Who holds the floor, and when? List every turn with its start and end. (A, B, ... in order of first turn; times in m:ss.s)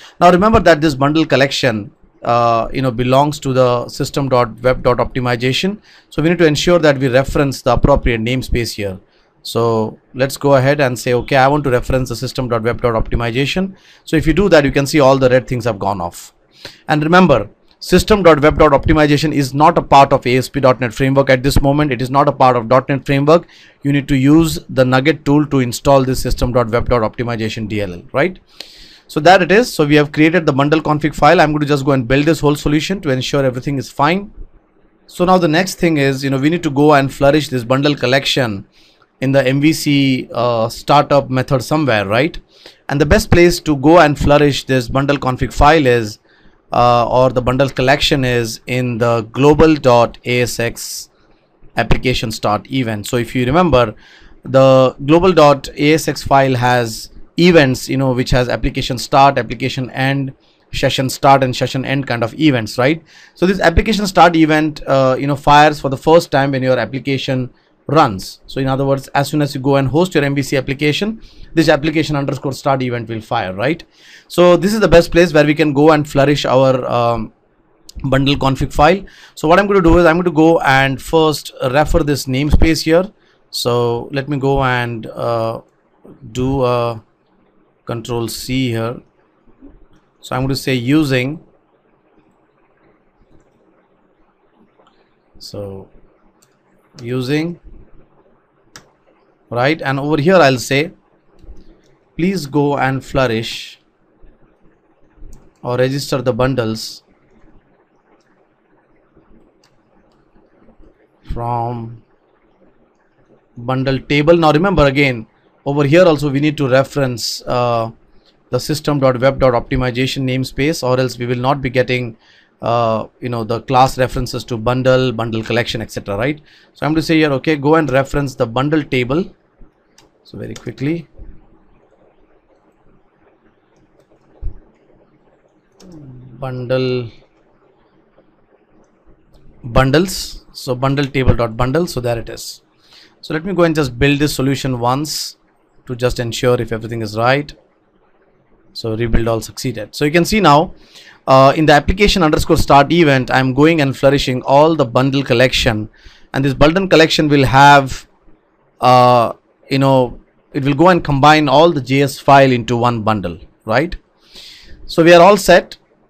0:00.2-0:16.3 A
0:16.9-0:28.4 A
0:29.1-0:34.3 A
0:35.1-0:38.7 A
0:39.2-0:46.2 A
0:46.7-0:51.1 A
0:51.8-0:53.9 A
0:54.4-1:17.3 A
1:18.0-1:25.6 A
1:26.2-1:27.0 A
1:27.8-1:29.0 A
1:30.2-1:31.4 A
1:35.4-1:35.9 A
1:37.0-1:37.6 A
1:39.5-1:40.9 A
1:42.2-1:43.8 A
1:45.6-1:47.0 A
1:51.2-1:52.0 A
1:53.6-1:57.9 A
1:58.5-2:09.3 A
2:10.2-2:11.1 A
2:16.3-2:17.1 A
2:19.6-2:22.6 A
2:23.2-2:27.5 A
2:28.7-2:30.7 A
2:31.3-2:38.1 A
2:38.8-2:44.0 A
2:44.9-2:45.8 A